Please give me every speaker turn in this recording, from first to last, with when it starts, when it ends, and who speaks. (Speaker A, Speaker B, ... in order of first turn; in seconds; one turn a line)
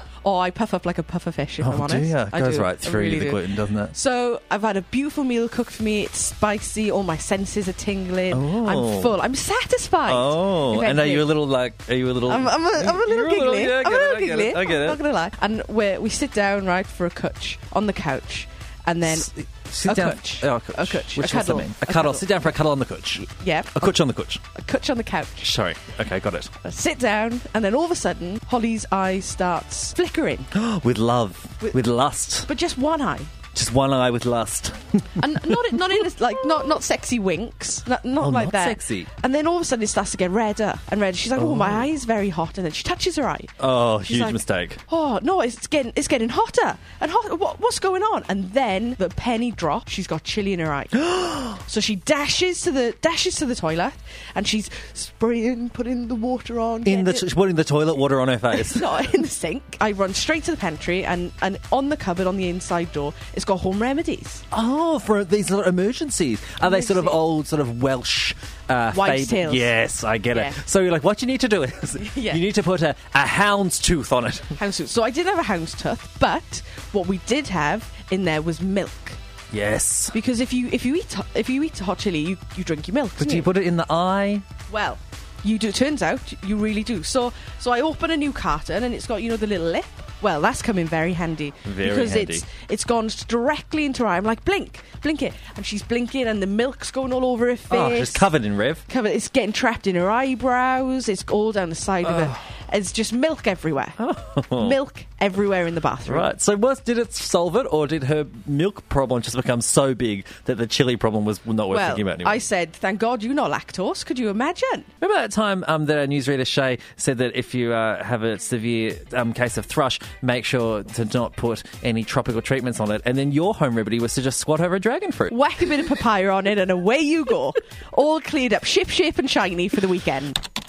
Speaker A: 0.2-11.3
Speaker B: 1.6-4.0
Speaker B: 8.3-9.2
Speaker B: 10.1-15.0
Speaker A: 12.2-19.3
Speaker B: 19.0-24.4
Speaker A: 19.9-22.6
Speaker A: 23.1-25.5
Speaker B: 25.4-26.5
Speaker A: 26.6-30.5
Speaker B: 30.5-32.5
Speaker A: 32.4-33.3
Speaker B: 33.5-35.8
Speaker A: 35.2-43.5
Speaker B: 38.2-39.1
Speaker B: 41.4-41.9
Speaker B: 43.6-44.8
Speaker A: 44.0-57.3
Speaker B: 56.9-58.9
Speaker A: 58.5-64.4
Speaker B: 64.5-74.6
Speaker A: 66.6-67.2
Speaker A: 68.9-69.7
Speaker A: 70.3-70.6
Speaker A: 72.0-72.4
Speaker A: 74.6-79.2
Speaker B: 79.5-80.1
Speaker A: 80.1-83.5
Speaker B: 83.2-84.4
Speaker A: 84.7-98.3
Speaker B: 91.6-92.5
Speaker B: 97.7-98.8
Speaker A: 98.9-104.0
Speaker B: 102.0-102.4
Speaker B: 104.0-104.8
Speaker A: 104.5-106.3
Speaker B: 106.1-112.4
Speaker A: 111.7-114.9
Speaker B: 115.0-125.3
Speaker A: 125.3-130.3